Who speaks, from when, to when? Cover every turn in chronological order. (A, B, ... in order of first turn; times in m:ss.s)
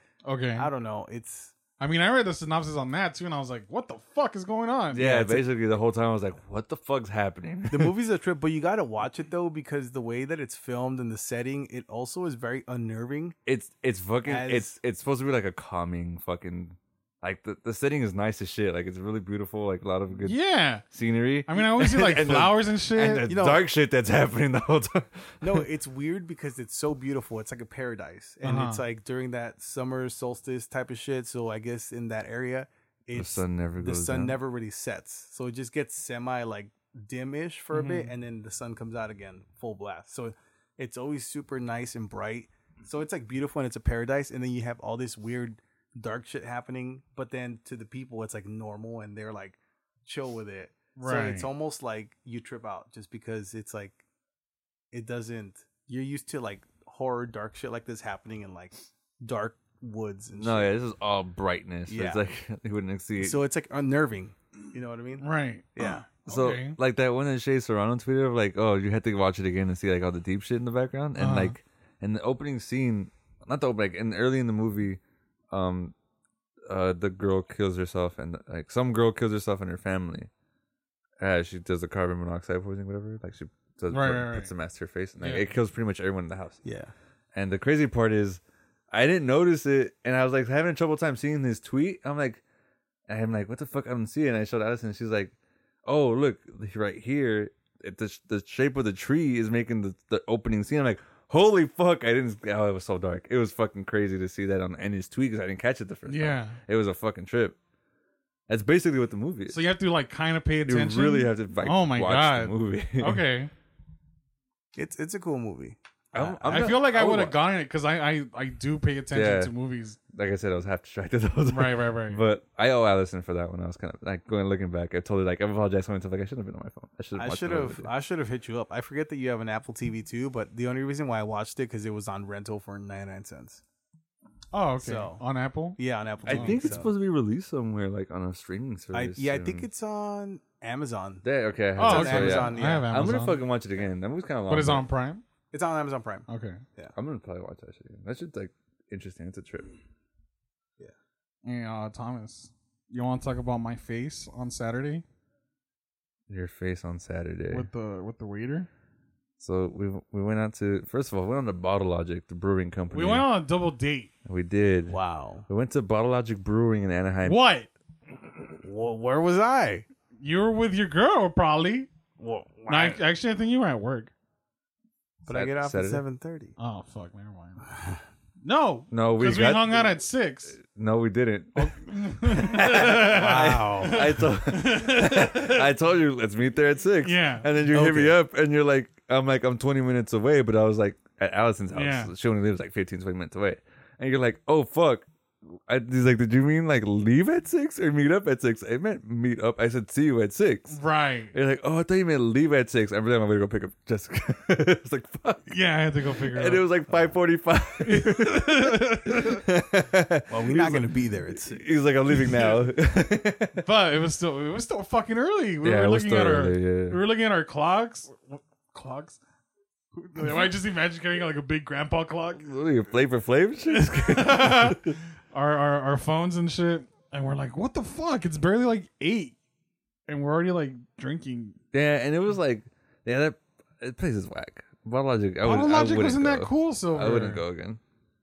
0:00.2-0:00.7 A
0:00.6-0:01.5 B
0:01.8-0:05.3 A
0:04.9-0:07.9 C
0:05.0-0:05.4 B
0:07.7-0:13.4 B
0:13.4-0:20.4 C
0:14.2-0:14.8 B
0:20.2-0:20.9 A
0:20.9-0:25.6 C
0:21.4-0:23.3 A
0:23.3-0:23.6 B
0:25.4-0:54.0 B
0:28.4-0:28.8 A
0:33.1-0:34.4 C
0:37.7-0:38.1 A
0:51.0-0:51.5 A
0:54.9-1:00.7 B
1:00.4-1:03.4 C
1:01.9-1:02.2 B
1:03.2-1:06.0 B
1:05.2-1:06.8 A
1:06.3-1:15.0 C
1:11.2-1:11.5 A
1:15.5-1:15.9 C
1:16.6-1:20.3 C
1:21.2-1:26.6 C
1:23.9-1:24.5 A
1:25.2-1:25.4 A
1:26.6-1:26.9 B
1:27.3-1:32.4 C
1:33.1-1:35.3 C
1:35.8-1:47.6 C
1:46.1-1:46.6 A
1:48.5-1:49.6 C
1:49.5-1:53.5 A
1:50.6-1:53.2 C
1:54.7-1:56.4 B
1:56.1-1:57.4 C
1:56.4-2:00.0 A
1:59.1-1:59.5 C
2:00.1-2:07.9 C
2:01.5-2:02.2 A
2:07.2-2:13.6 B
2:14.5-2:16.7 A
2:14.8-2:15.2 B
2:15.8-2:16.9 B
2:16.3-2:19.7 C
2:18.9-2:21.2 B
2:21.2-2:24.8 C
2:21.8-2:23.4 A
2:21.8-2:22.9 B
2:24.5-2:25.2 A
2:25.5-2:26.2 B
2:26.3-2:26.6 A
2:26.9-2:29.7 C
2:31.4-2:35.0 A
2:36.3-2:37.7 C
2:37.5-2:38.7 A
2:39.4-2:43.3 C
2:42.9-2:44.1 A
2:44.2-2:47.4 C
2:44.9-2:45.5 B
2:47.2-2:47.7 A
2:48.6-2:49.8 B
2:50.2-2:51.9 A
2:52.2-2:53.0 B
2:52.7-2:54.1 A
2:55.2-2:56.0 C
2:55.3-2:56.5 B
2:56.6-2:57.6 A
2:58.4-3:00.6 A
2:58.9-3:00.0 C
3:00.6-3:20.8 C
3:01.6-3:05.7 A
3:02.7-3:04.0 B
3:07.0-3:07.6 A
3:07.7-3:08.1 B
3:11.7-3:12.1 A
3:20.7-3:21.3 A
3:21.3-3:25.5 C
3:25.5-3:26.6 A
3:26.3-3:33.6 C
3:27.8-3:29.4 A
3:30.3-3:31.6 B
3:32.2-3:32.6 A
3:33.6-3:39.2 A
3:35.6-3:37.0 C
3:39.9-3:42.5 A
3:42.4-3:45.0 C
3:43.7-3:49.3 A
3:50.1-3:51.6 A
3:51.7-3:57.8 C
3:55.4-3:57.4 A